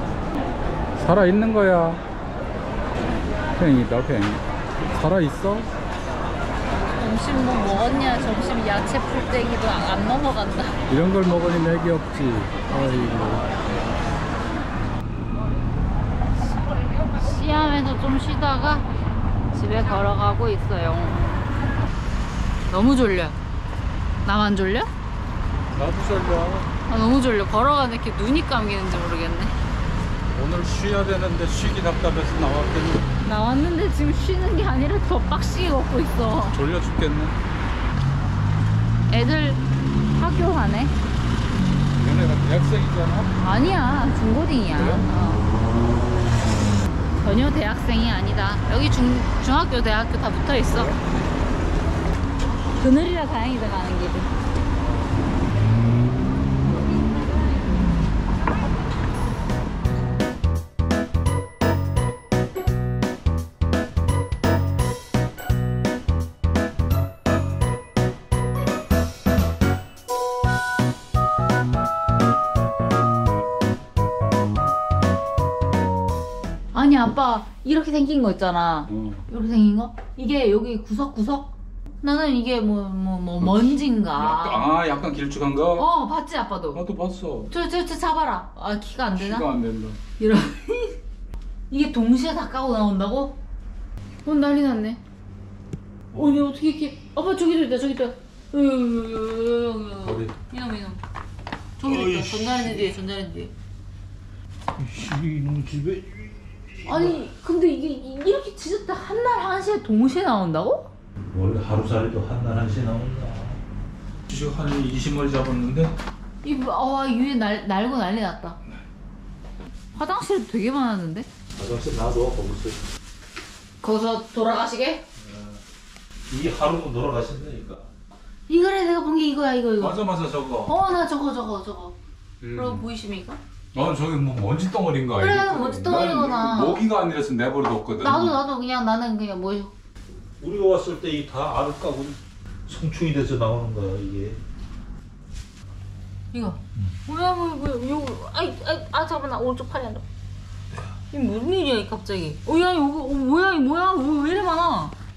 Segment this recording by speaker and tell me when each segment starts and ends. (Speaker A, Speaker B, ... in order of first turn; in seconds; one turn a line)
Speaker A: 1.0-2.0
Speaker A: 3.5-5.7
Speaker B: 6.9-10.7
Speaker A: 10.9-13.5
Speaker B: 17.1-18.9
Speaker B: 19.5-21.5
Speaker B: 22.7-23.4
Speaker B: 24.2-24.9
Speaker A: 25.7-26.7
Speaker B: 26.9-29.6
Speaker A: 30.3-33.1
Speaker B: 33.2-36.5
Speaker A: 36.5-37.4
Speaker B: 39.1-39.6
Speaker B: 40.1-40.9
Speaker A: 42.0-43.3
Speaker B: 43.4-45.4
Speaker A: 44.7-45.1
Speaker B: 47.1-50.9
Speaker A: 50.8-51.1
Speaker B: 52.8-54.3
Speaker B: 76.7-84.7
Speaker A: 78.9-79.2
Speaker A: 83.4-85.9
Speaker B: 85.8-86.8
Speaker A: 86.7-87.5
Speaker B: 87.5-89.5
Speaker A: 89.1-90.0
Speaker B: 90.2-91.0
Speaker B: 91.7-93.4
Speaker B: 94.2-95.0
Speaker B: 96.1-101.0
Speaker C: 96.1-96.4
Speaker A: 100.0-100.3
Speaker B: 101.8-103.5
Speaker C: 101.8-102.9
Speaker C: 104.8-106.3
Speaker B: 106.8-110.9
Speaker C: 106.8-107.2
Speaker C: 111.3-113.6
Speaker A: 114.3-115.9
Speaker B: 116.4-118.6
Speaker B: 119.9-121.3
Speaker C: 121.5-122.8
Speaker B: 123.8-125.0
Speaker C: 125.2-125.6
Speaker C: 126.3-127.9
Speaker B: 128.5-130.0
Speaker A: 129.8-130.6
Speaker B: 130.6-131.9
Speaker A: 132.4-132.9
Speaker B: 132.5-133.4
Speaker A: 133.7-138.4
Speaker B: 135.1-136.8
Speaker B: 138.0-139.7
Speaker C: 140.4-144.4
Speaker B: 146.3-150.0
Speaker B: 151.1-154.9